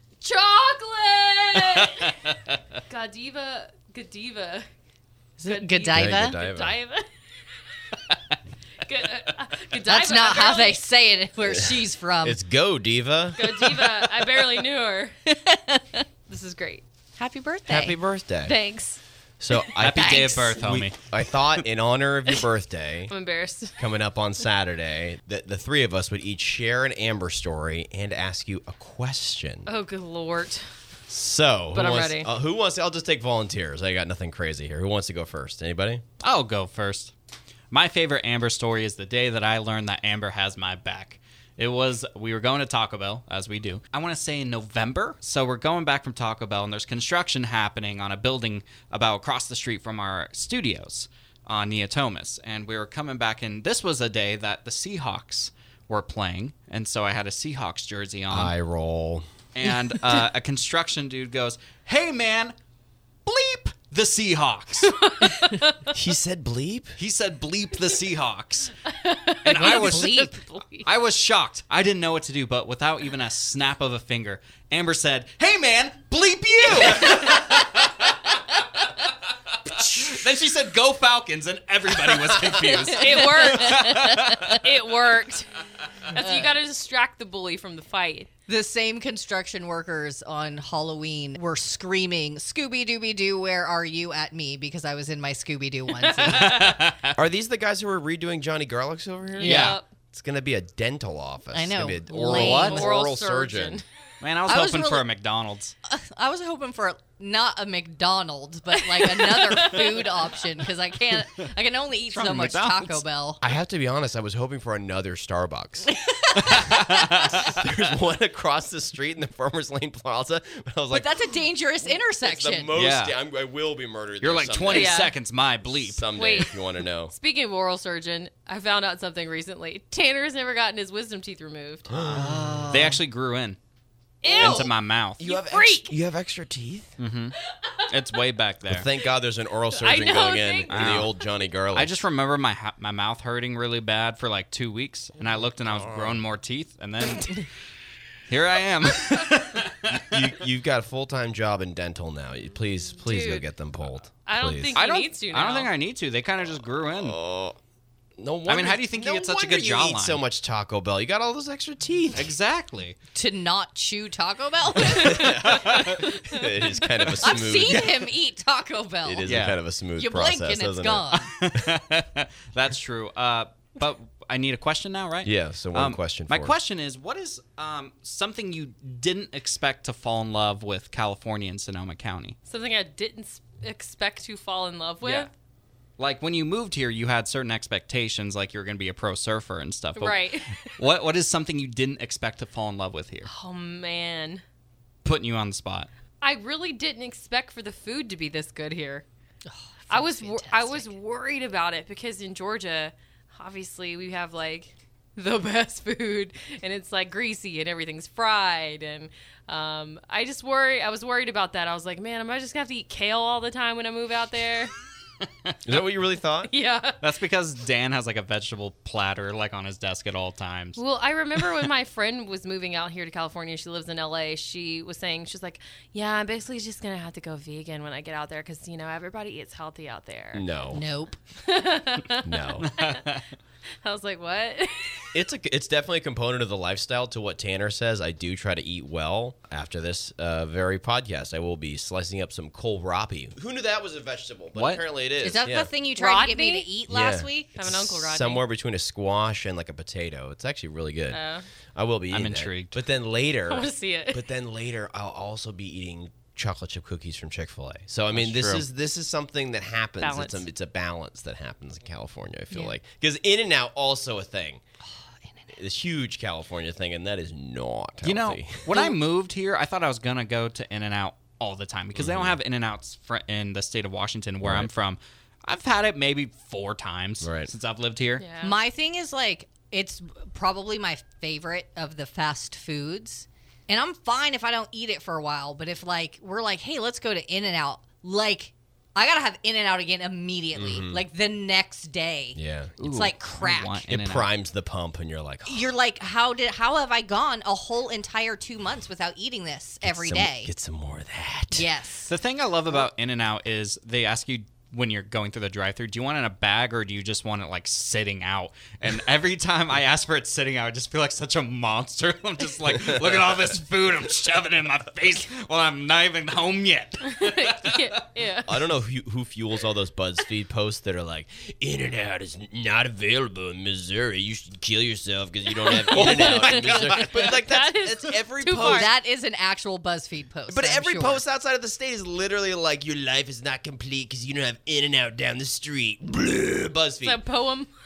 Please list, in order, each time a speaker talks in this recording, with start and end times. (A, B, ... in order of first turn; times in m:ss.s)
0:00.2-0:02.1 A
0:01.5-0:02.4 B
0:02.9-0:04.6 A
0:05.4-0:06.4 C
0:05.4-0:07.0 A
0:05.9-0:06.8 D
0:08.8-0:10.8 A
0:09.8-0:12.4 C
0:11.4-0:13.7 D
0:13.3-0:15.1 A
0:15.3-0:16.0 C
0:16.3-0:16.8 A
0:17.2-0:18.0 C
0:17.7-0:18.5 D
0:18.4-0:19.0 A
0:19.4-0:23.1 D
0:19.8-0:21.6 B
0:20.0-0:20.5 C
0:23.1-0:23.8 A
0:23.8-0:29.7 D
0:29.6-0:30.7 A
0:31.1-0:36.0 D
0:31.7-0:32.3 A
0:36.2-0:37.1 B
0:37.7-0:58.5 B
0:58.3-0:59.2 D
0:59.5-1:02.5 B
1:03.2-1:05.0 B
1:04.9-1:05.9 A
1:05.9-1:07.0 D
1:07.0-1:08.7 B
1:08.9-1:10.9 A
1:09.4-1:10.2 B
1:09.4-1:10.4 C
1:10.8-1:19.1 B
1:19.6-1:24.6 B
1:22.4-1:22.8 D
1:22.9-1:25.5 A
1:23.1-1:24.4 C
1:26.1-1:28.3 A
1:26.2-1:26.5 C
1:28.5-1:36.7 C
1:36.0-1:36.8 A
1:36.4-1:37.1 B
1:37.1-1:43.8 D
1:39.4-1:39.8 A
1:39.4-1:39.8 B
1:39.4-1:39.7 C
1:41.5-1:42.9 C
1:42.2-1:42.9 B
1:42.7-1:43.8 A
1:44.2-1:45.7 B
1:44.5-1:45.0 C
1:45.8-1:53.4 C
1:48.9-1:50.1 A
1:52.1-1:53.0 B
1:53.4-1:55.9 D
1:55.9-1:57.1 C
1:56.4-2:01.1 D
1:56.5-1:57.6 B
2:00.9-2:02.7 C
2:02.2-2:05.0 D
2:02.7-2:03.1 B
2:04.2-2:06.1 B
2:04.7-2:05.1 A
2:05.7-2:07.1 D
2:06.1-2:06.6 A
2:07.1-2:11.9 A
2:11.9-2:12.8 D
2:12.1-2:13.0 C
2:12.1-2:13.6 B
2:14.2-2:16.0 A
2:14.2-2:15.2 B
2:14.3-2:17.0 D
2:17.0-2:18.9 B
2:18.6-2:22.0 D
2:19.7-2:21.1 A
2:20.7-2:21.1 B
2:21.7-2:27.4 B
2:25.6-2:26.2 D
2:28.3-2:30.2 B
2:29.9-2:34.8 D
2:33.0-2:33.4 A
2:34.2-2:35.7 A
2:34.7-2:37.2 B
2:37.0-2:37.6 D
2:38.2-2:42.3 D
2:38.5-2:40.2 B
2:42.1-2:43.0 B
2:43.1-2:45.9 C
2:44.8-2:48.0 D
2:45.4-2:46.0 B
2:47.2-2:49.4 C
2:49.0-2:51.6 D
2:49.3-2:49.6 B
2:50.0-2:51.3 C
2:51.1-3:02.4 B
2:55.2-2:56.5 D
3:02.5-3:05.3 A
3:05.0-3:05.3 B
3:06.0-3:13.3 B
3:10.0-3:10.7 A
3:13.3-3:14.4 A
3:15.0-3:15.9 B
3:16.2-3:19.0 A
3:19.5-3:20.9 C
3:19.9-3:34.7 A
3:35.6-3:36.5 D
3:36.5-3:37.0 A
3:37.0-3:40.8 B
3:40.8-3:50.4 A
3:50.3-3:50.8 D
3:50.7-3:51.2 C
3:51.4-3:53.0 A
3:52.2-3:52.7 D
3:52.6-3:53.2 B
3:53.8-3:55.1 A
3:55.1-4:05.7 D
4:04.5-4:04.8 B
4:05.2-4:07.6 C
4:06.0-4:06.7 A
4:06.9-4:11.2 D
4:07.6-4:08.4 A
4:11.1-4:11.4 A
4:11.7-4:24.6 D
4:12.1-4:12.8 B
4:13.5-4:14.3 A
4:18.1-4:18.6 B
4:20.0-4:20.4 A
4:25.5-4:28.6 D
4:28.0-4:38.2 B
4:31.9-4:32.4 D
4:34.4-4:34.7 D
4:37.2-4:37.5 D
4:38.2-4:38.6 A
4:38.4-4:53.8 C
4:50.5-4:51.0 D
4:52.4-4:52.8 D
4:52.8-4:54.3 B
4:53.9-4:55.7 D
4:55.4-5:00.5 C
4:59.8-5:01.6 D
5:01.5-5:02.1 C
5:02.1-5:17.9 B
5:17.1-5:18.6 A
5:18.4-5:28.9 D
5:25.6-5:28.9 A
5:25.9-5:27.2 B
5:28.5-5:31.2 C
5:30.5-5:37.2 D
5:37.0-5:37.7 A